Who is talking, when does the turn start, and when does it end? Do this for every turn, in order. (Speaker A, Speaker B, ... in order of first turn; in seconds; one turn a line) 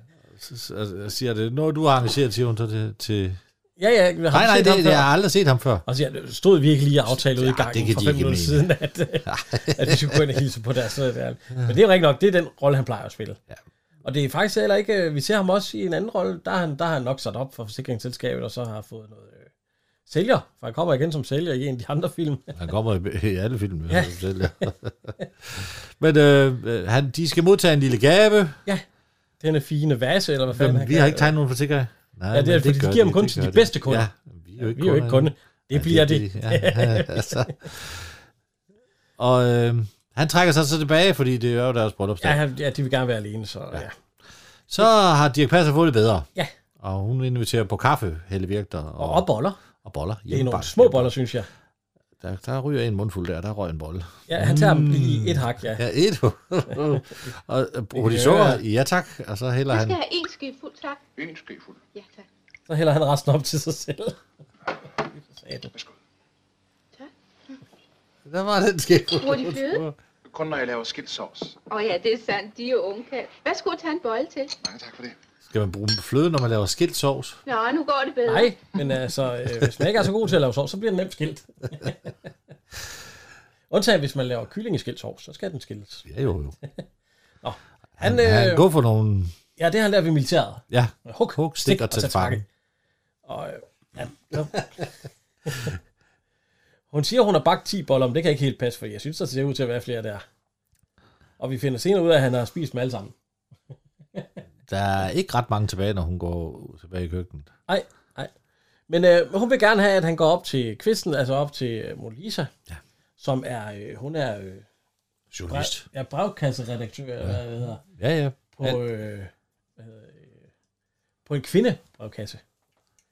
Speaker A: 0.3-3.4
Speaker B: 3.8-5.1
Speaker A: 4.3-5.8
Speaker B: 5.9-13.4
Speaker A: 7.0-8.7
Speaker A: 9.3-10.2
Speaker B: 14.0-19.5
Speaker B: 20.1-22.5
Speaker A: 22.6-28.6
Speaker B: 23.9-24.2
Speaker B: 29.4-31.3
Speaker A: 30.5-38.1
Speaker B: 32.3-34.1
Speaker B: 34.6-37.7
Speaker A: 39.2-42.4
Speaker B: 42.2-43.9
Speaker A: 44.7-46.3
Speaker A: 46.8-49.3
Speaker B: 49.0-49.6
Speaker A: 49.8-51.1
Speaker B: 50.3-51.5
Speaker A: 52.2-60.0
Speaker B: 54.3-55.8
Speaker B: 58.0-58.6
Speaker C: 59.7-61.0
Speaker D: 61.2-61.8
Speaker C: 61.9-62.3
Speaker B: 62.7-64.2
Speaker B: 65.2-65.7
Speaker A: 68.3-70.0
Speaker C: 69.2-69.8
Speaker D: 70.3-71.6
Speaker C: 71.7-74.5
Speaker D: 74.6-75.2
Speaker A: 75.5-77.4
Speaker C: 77.5-78.7
Speaker B: 78.3-82.1
Speaker B: 83.7-86.1
Speaker A: 86.1-86.6
Speaker B: 87.4-88.7
Speaker A: 88.0-89.3
Speaker B: 89.6-92.4
Speaker A: 90.7-92.4
Speaker B: 93.2-94.9
Speaker B: 95.5-95.8
Speaker B: 96.9-100.2
Speaker B: 101.4-103.1
Speaker A: 104.7-107.5
Speaker B: 107.7-108.3
Speaker B: 108.9-112.5
Speaker B: 113.2-114.7
Speaker A: 115.3-115.9
Speaker B: 115.5-117.8
Speaker A: 118.0-118.8
Speaker B: 118.6-120.5
Speaker B: 121.3-122.4